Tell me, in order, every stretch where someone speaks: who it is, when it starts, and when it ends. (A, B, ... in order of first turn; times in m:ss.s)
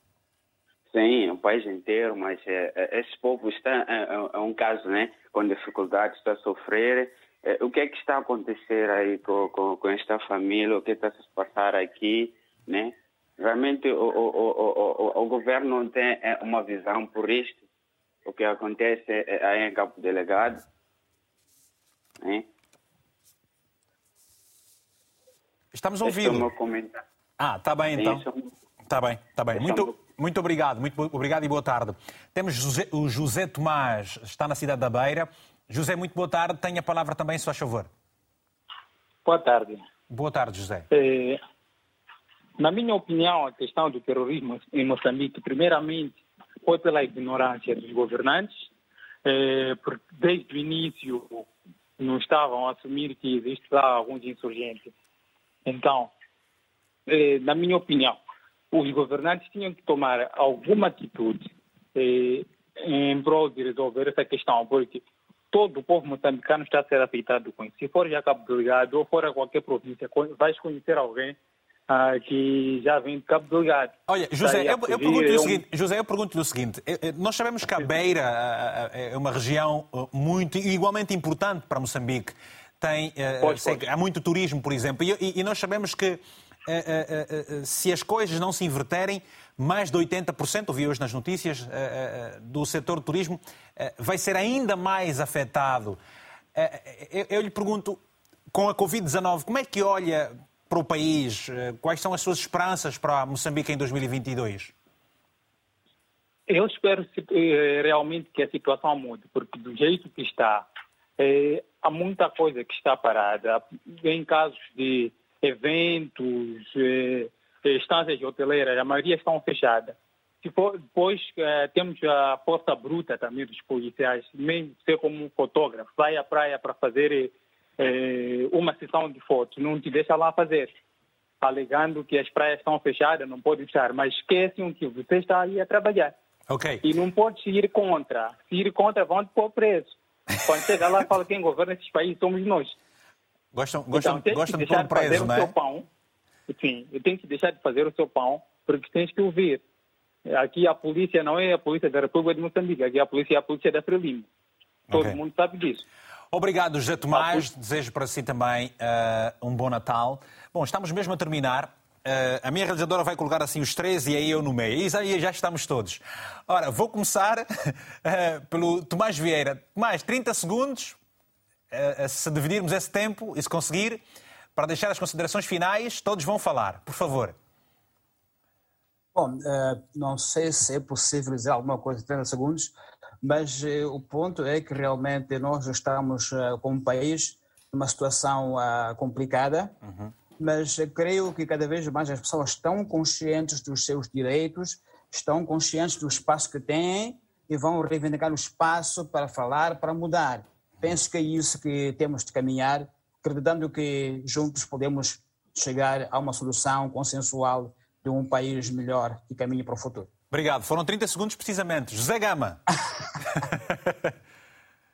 0:00.9-0:17.6 A
0:18.3-0:20.6 A
0:25.7-0:26.5 B
0:26.0-0:27.0 A
0:27.4-0:28.2 B
0:27.9-0:28.2 A
0:28.9-0:37.9 B
0:29.6-0:29.8 A
0:39.2-0:39.8 C
0:40.1-0:40.9 B
0:40.9-0:41.4 C
0:42.6-0:48.7 C
0:49.2-0:51.5 C
0:52.0-0:54.9 C
0:55.6-0:56.1 C
0:57.1-0:58.2 C
0:58.7-1:11.4 C
1:11.9-1:15.6 C
1:14.1-1:36.0 B
1:23.4-1:23.8 C
1:36.6-1:38.0 B
1:38.5-1:44.7 B
1:46.5-1:50.7 C
1:51.2-2:10.7 C
2:11.4-2:16.1 C
2:16.5-2:16.9 B
2:16.8-2:22.8 C
2:23.5-2:25.5 B
2:23.9-2:25.8 C
2:26.5-2:29.6 C
2:30.3-2:34.3 C
2:34.9-2:35.8 C
2:34.9-2:35.2 B
2:36.3-2:51.0 B
2:37.1-2:37.4 C
2:51.7-2:54.0 B
2:54.6-2:57.4 B
2:59.1-3:09.7 D
3:09.8-3:10.1 B
3:10.4-3:30.1 D
3:30.3-3:32.6 B
3:33.3-3:34.1 B